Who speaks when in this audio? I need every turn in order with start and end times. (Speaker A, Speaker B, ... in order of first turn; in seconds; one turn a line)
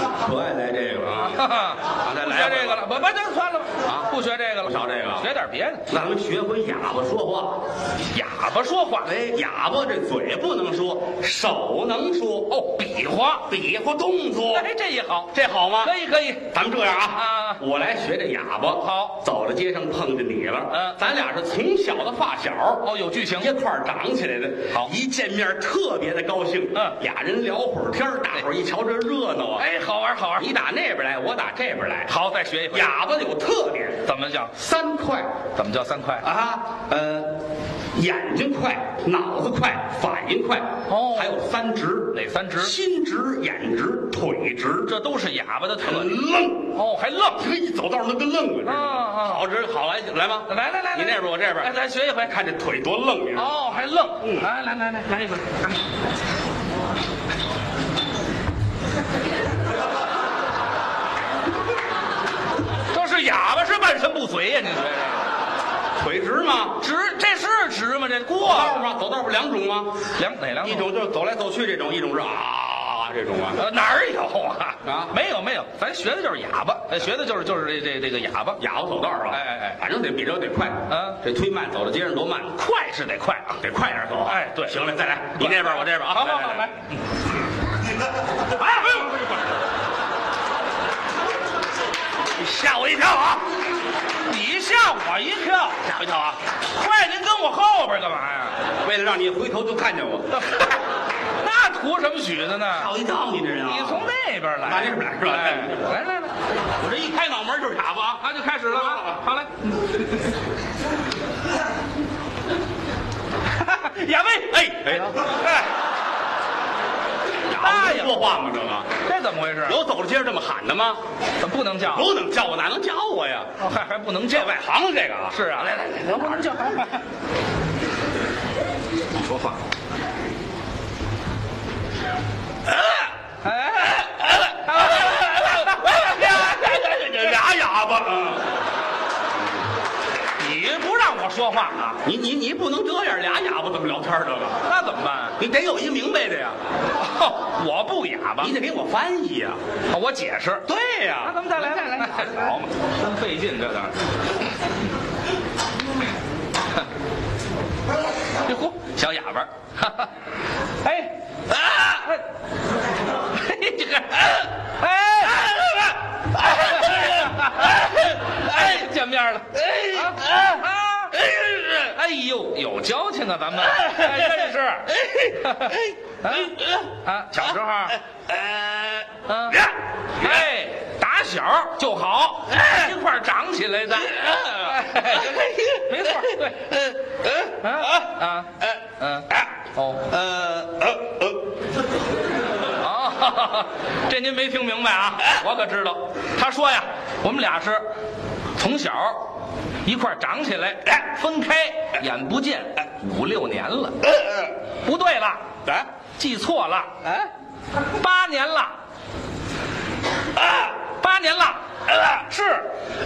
Speaker A: 0.2-1.4
Speaker B: 1.2-5.8
Speaker A: 2.0-2.8
Speaker A: 3.8-4.1
Speaker A: 4.6-5.3
Speaker A: 5.9-7.6
Speaker B: 8.1-9.1
Speaker A: 9.0-12.6
Speaker B: 12.5-13.5
Speaker A: 13.5-14.7
Speaker B: 14.5-16.5
Speaker A: 15.3-15.9
Speaker A: 16.5-29.7
Speaker B: 17.1-17.6
Speaker B: 18.8-19.2
Speaker B: 20.7-21.0
Speaker B: 22.8-23.5
Speaker B: 29.6-30.5
Speaker A: 30.4-32.1
Speaker B: 32.1-33.0
Speaker A: 32.7-34.0
Speaker B: 34.0-34.5
Speaker A: 34.5-35.3
Speaker B: 35.5-36.2
Speaker A: 36.2-37.4
Speaker A: 37.9-44.9
Speaker B: 40.9-41.4
Speaker B: 42.1-42.8
Speaker B: 44.9-46.2
Speaker A: 45.8-46.7
Speaker B: 46.7-47.4
Speaker A: 47.4-53.6
Speaker B: 48.6-49.5
Speaker B: 50.5-52.4
Speaker B: 53.3-55.7
Speaker B: 62.9-65.3
Speaker A: 66.0-66.8
Speaker B: 66.8-68.9
Speaker A: 68.3-70.0
Speaker B: 70.2-70.9
Speaker A: 70.6-73.6
Speaker B: 73.6-78.6
Speaker A: 74.8-75.2
Speaker A: 78.6-82.6
Speaker B: 79.3-79.8
Speaker B: 80.9-81.2
Speaker B: 82.5-83.6
Speaker A: 83.6-86.7
Speaker B: 84.2-87.0
Speaker B: 88.6-89.1
Speaker A: 92.4-93.5
Speaker B: 94.2-95.8
Speaker A: 95.8-96.4
Speaker B: 96.7-98.6
Speaker A: 98.8-100.4
Speaker B: 100.3-100.8
Speaker B: 101.4-102.9
Speaker A: 102.7-104.1
Speaker B: 103.6-106.3
Speaker A: 104.6-105.9
Speaker A: 106.8-109.2
Speaker B: 108.2-109.7
Speaker B: 113.5-115.7
Speaker A: 114.5-115.2
Speaker A: 117.5-118.9
Speaker B: 117.5-118.2
Speaker B: 119.0-119.8
Speaker A: 119.7-121.0
Speaker B: 121.4-122.1
Speaker A: 121.8-123.5
Speaker B: 123.6-124.6
Speaker A: 124.3-126.8
Speaker B: 125.3-127.0
Speaker B: 129.3-129.6
Speaker B: 133.4-136.9
Speaker A: 134.0-138.4
Speaker B: 140.4-142.0
Speaker A: 142.0-144.6
Speaker B: 144.6-145.4
Speaker A: 145.4-146.6
Speaker B: 146.9-148.5
Speaker A: 148.4-149.6
Speaker B: 149.9-150.7
Speaker A: 150.7-152.4
Speaker B: 151.2-154.0
Speaker B: 158.4-160.1
Speaker B: 160.8-161.2
Speaker B: 161.7-162.2
Speaker B: 163.3-165.7
Speaker A: 165.5-165.9
Speaker B: 166.3-171.2
Speaker A: 166.4-167.4
Speaker A: 169.6-170.6
Speaker A: 171.1-171.9
Speaker B: 171.7-178.0
Speaker A: 173.8-174.2
Speaker A: 174.9-176.9
Speaker A: 177.9-179.7
Speaker B: 179.3-186.7
Speaker A: 182.5-182.9
Speaker A: 184.1-188.1
Speaker B: 187.6-190.1
Speaker A: 190.1-191.3
Speaker B: 192.8-197.9
Speaker B: 198.6-199.3
Speaker B: 199.8-204.0
Speaker A: 204.1-204.5
Speaker B: 204.8-205.4
Speaker B: 206.2-207.0
Speaker A: 207.0-207.3
Speaker B: 207.9-208.8
Speaker A: 210.4-210.7
Speaker B: 210.9-212.7